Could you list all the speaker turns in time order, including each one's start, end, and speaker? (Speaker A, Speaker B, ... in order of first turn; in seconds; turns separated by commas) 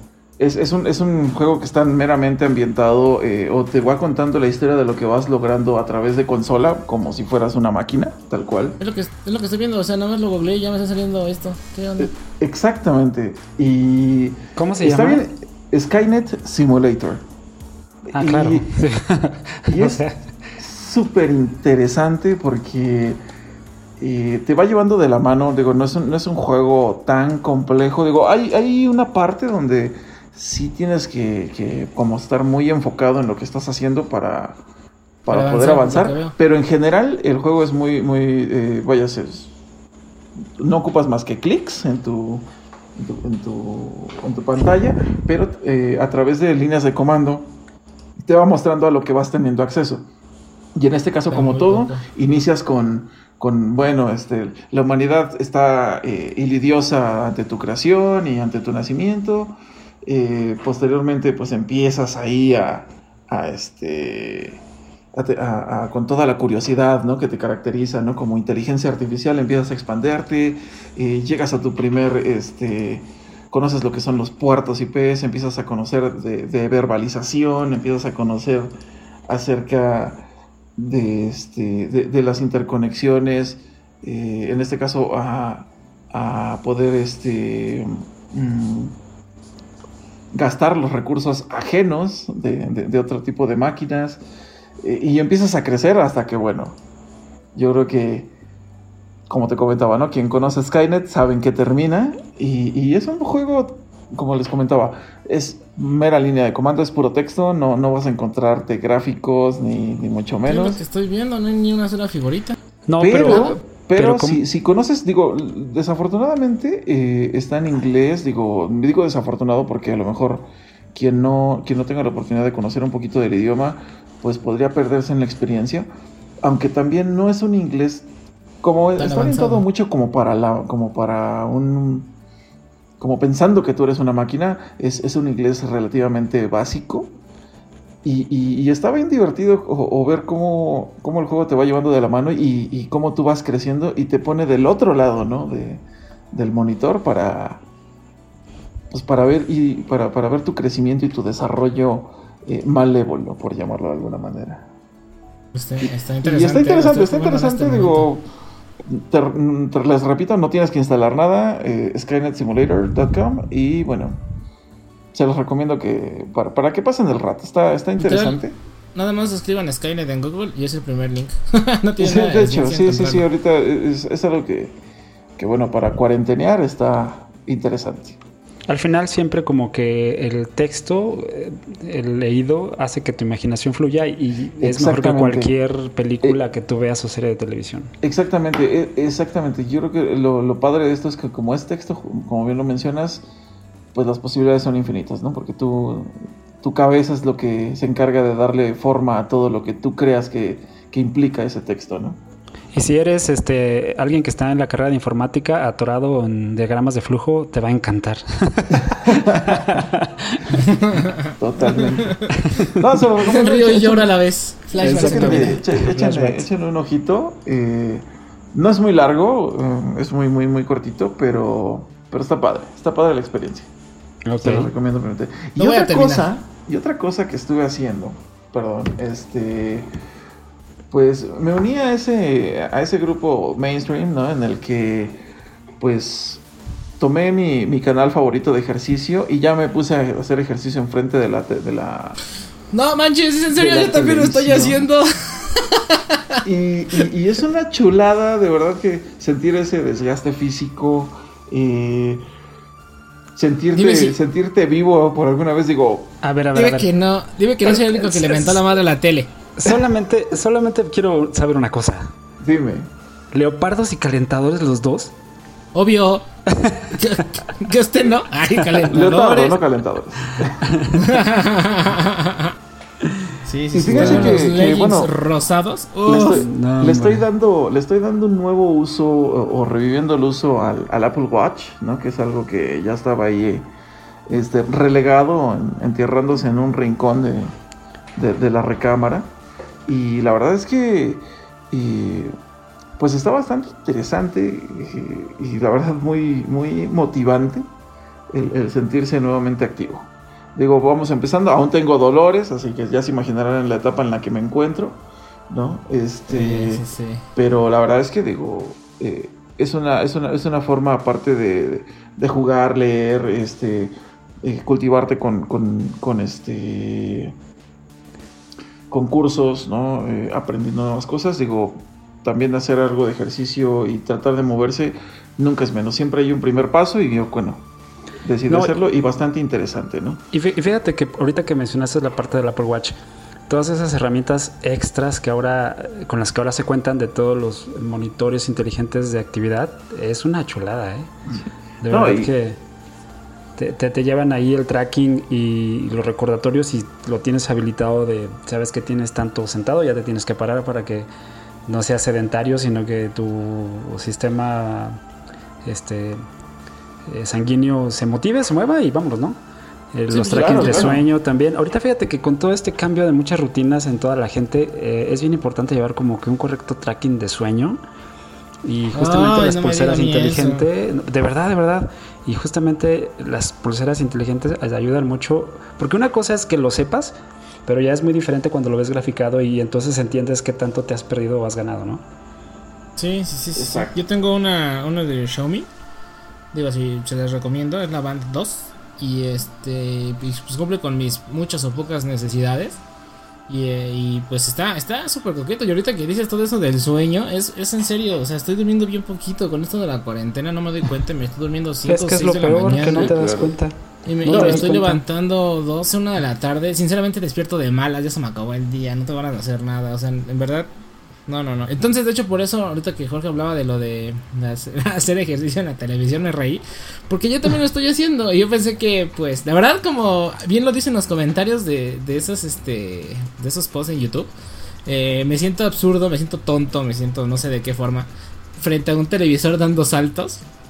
Speaker A: 0.4-8.8, Speaker B: 8.8-12.1, Speaker A: 12.0-17.2, Speaker C: 14.6-15.2, Speaker A: 18.1-18.8, Speaker C: 18.1-20.2, Speaker A: 19.7-20.0, Speaker A: 20.6-23.2, Speaker A: 24.0-34.6, Speaker A: 35.2-39.5, Speaker B: 35.3-36.3, Speaker A: 40.6-47.5, Speaker A: 48.2-50.0, Speaker A: 50.7-64.6, Speaker B: 51.3-52.0, Speaker A: 65.1-78.7, Speaker A: 79.3-89.0, Speaker A: 90.3-94.2, Speaker A: 94.8-96.8, Speaker A: 97.5-98.3, Speaker A: 99.3-110.8, Speaker B: 110.5-112.6, Speaker C: 112.9-114.4, Speaker A: 113.0-125.9, Speaker A: 126.4-128.1, Speaker A: 128.6-132.1, Speaker B: 129.0-129.6, Speaker A: 133.0-137.1, Speaker A: 138.0-147.6, Speaker A: 148.9-154.7, Speaker B: 155.5-158.1, Speaker A: 155.8-158.2, Speaker A: 158.8-164.2, Speaker A: 165.1-168.5, Speaker B: 168.0-168.4, Speaker B: 168.9-173.2, Speaker A: 172.0-174.8, Speaker A: 175.4-178.2, Speaker C: 178.7-187.9, Speaker A: 184.6-185.5, Speaker A: 188.0-193.2, Speaker A: 193.9-202.2, Speaker C: 202.7-210.8, Speaker A: 209.0-209.7, Speaker B: 210.6-212.3, Speaker A: 211.4-212.2, Speaker C: 212.3-212.8, Speaker A: 212.7-214.1, Speaker B: 213.2-215.6, Speaker C: 214.8-216.5, Speaker A: 214.8-223.7, Speaker C: 224.2-224.7, Speaker A: 224.4-229.9, Speaker B: 225.6-226.3, Speaker A: 230.9-235.2, Speaker A: 235.8-236.4, Speaker A: 237.0-242.2, Speaker B: 242.7-246.4, Speaker A: 243.5-244.8, Speaker A: 246.4-252.2, Speaker A: 253.3-256.1, Speaker B: 253.7-254.2, Speaker C: 256.2-256.9, Speaker B: 256.5-259.3, Speaker C: 257.6-258.6, Speaker C: 259.6-262.1, Speaker A: 262.4-262.9, Speaker C: 263.3-265.1, Speaker B: 265.7-266.3, Speaker C: 266.4-267.2, Speaker B: 266.9-269.6, Speaker A: 268.9-270.7, Speaker C: 270.6-271.1, Speaker B: 270.9-272.5, Speaker B: 273.4-276.4, Speaker A: 273.7-275.1, Speaker C: 273.9-274.4, Speaker A: 276.1-283.7, Speaker C: 276.4-277.3, Speaker A: 284.3-287.5, Speaker A: 288.1-289.3, Speaker A: 289.9-292.3, Speaker A: 293.0-297.6, Speaker A: 298.3-317.3, Speaker B: 306.3-307.2, Speaker A: 318.9-327.6, Speaker A: 328.2-330.2, Speaker C: 328.5-328.7, Speaker C: 330.3-332.9, Speaker C: 333.5-341.1, Speaker A: 341.3-342.3, Speaker C: 341.8-342.6, Speaker C: 343.6-351.1, Speaker C: 351.6-355.0, Speaker C: 355.6-356.2, Speaker C: 357.1-359.4, Speaker C: 359.9-367.8, Speaker A: 360.1-361.0, Speaker B: 360.1-360.9, Speaker C: 368.6-382.0, Speaker B: 368.9-370.7, Speaker B: 383.0-385.7, Speaker A: 383.6-384.0, Speaker B: 386.5-392.8, Speaker B: 393.5-403.1, Speaker C: 401.9-405.0, Speaker A: 402.8-403.5, Speaker B: 404.1-410.7, Speaker A: 404.2-404.7, Speaker B: 411.3-424.3, Speaker B: 424.9-428.1, Speaker B: 428.6-430.4